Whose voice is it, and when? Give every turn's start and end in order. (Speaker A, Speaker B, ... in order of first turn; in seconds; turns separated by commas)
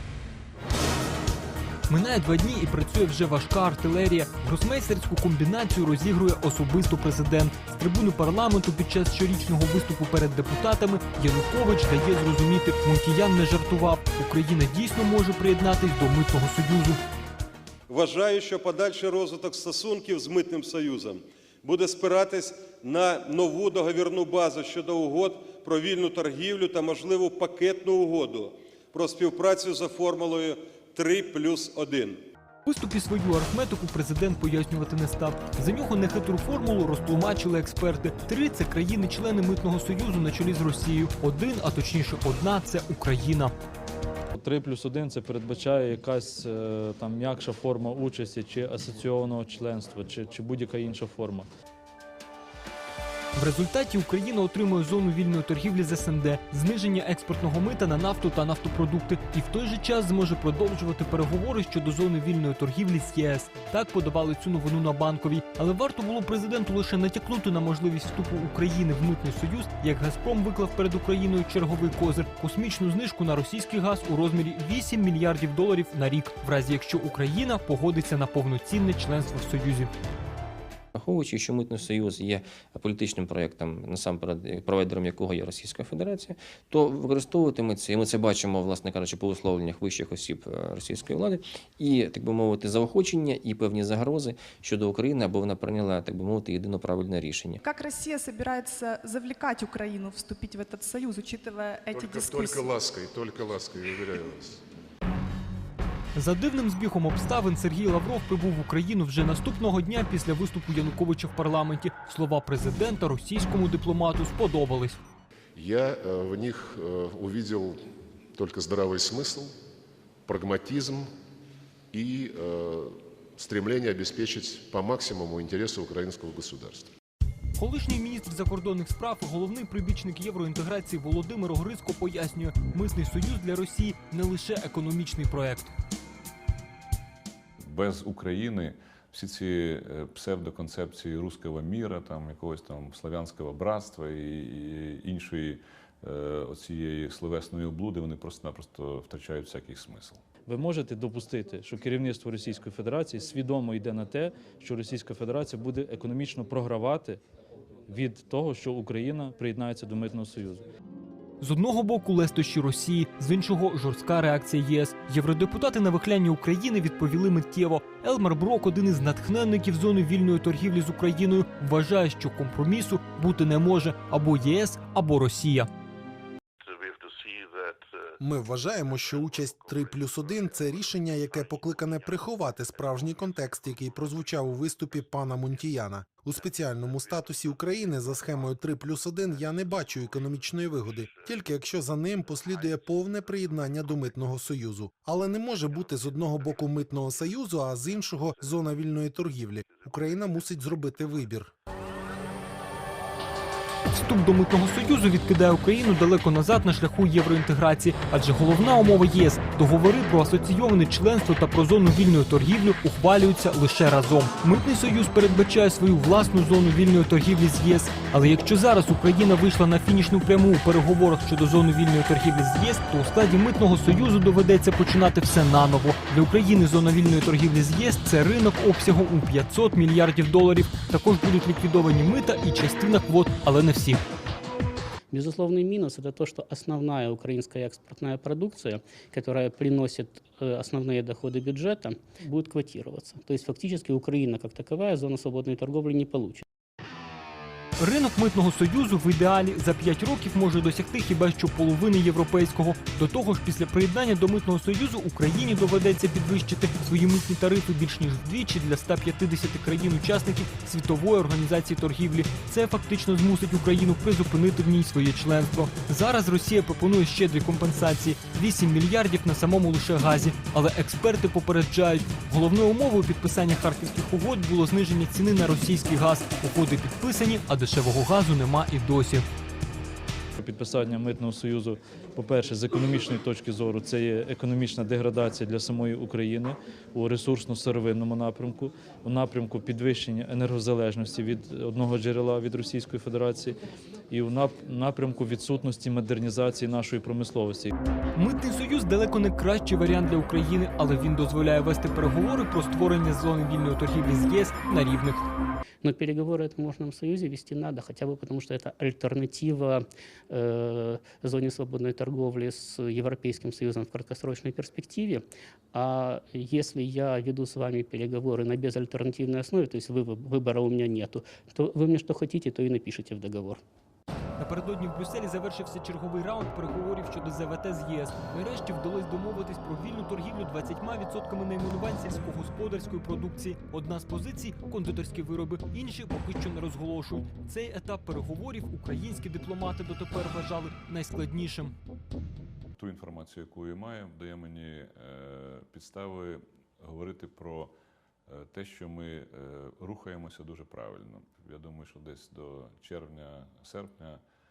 Speaker A: 1.9-17.0, Speaker B: 17.9-32.2, Speaker A: 32.6-43.5, Speaker C: 44.4-51.5, Speaker A: 53.4-79.9, Speaker D: 80.9-97.6, Speaker E: 97.6-102.6, Speaker F: 101.9-104.6, Speaker A: 106.1-115.0, Speaker F: 115.5-117.8, Speaker F: 118.3-119.5, Speaker F: 120.2-121.1, Speaker F: 121.9-126.9, Speaker A: 127.5-135.7, Speaker G: 137.7-150.2, Speaker C: 150.4-157.2, Speaker C: 157.9-160.6, Speaker A: 161.4-175.7, Speaker H: 178.2-201.5, Speaker A: 203.9-234.0, Speaker I: 235.1-246.4, Speaker A: 247.8-279.2, Speaker C: 280.4-293.6, Speaker C: 294.1-297.7, Speaker A: 298.1-305.2, Speaker I: 305.8-323.6, Speaker A: 324.4-341.7, Speaker G: 342.8-347.7, Speaker G: 348.3-354.2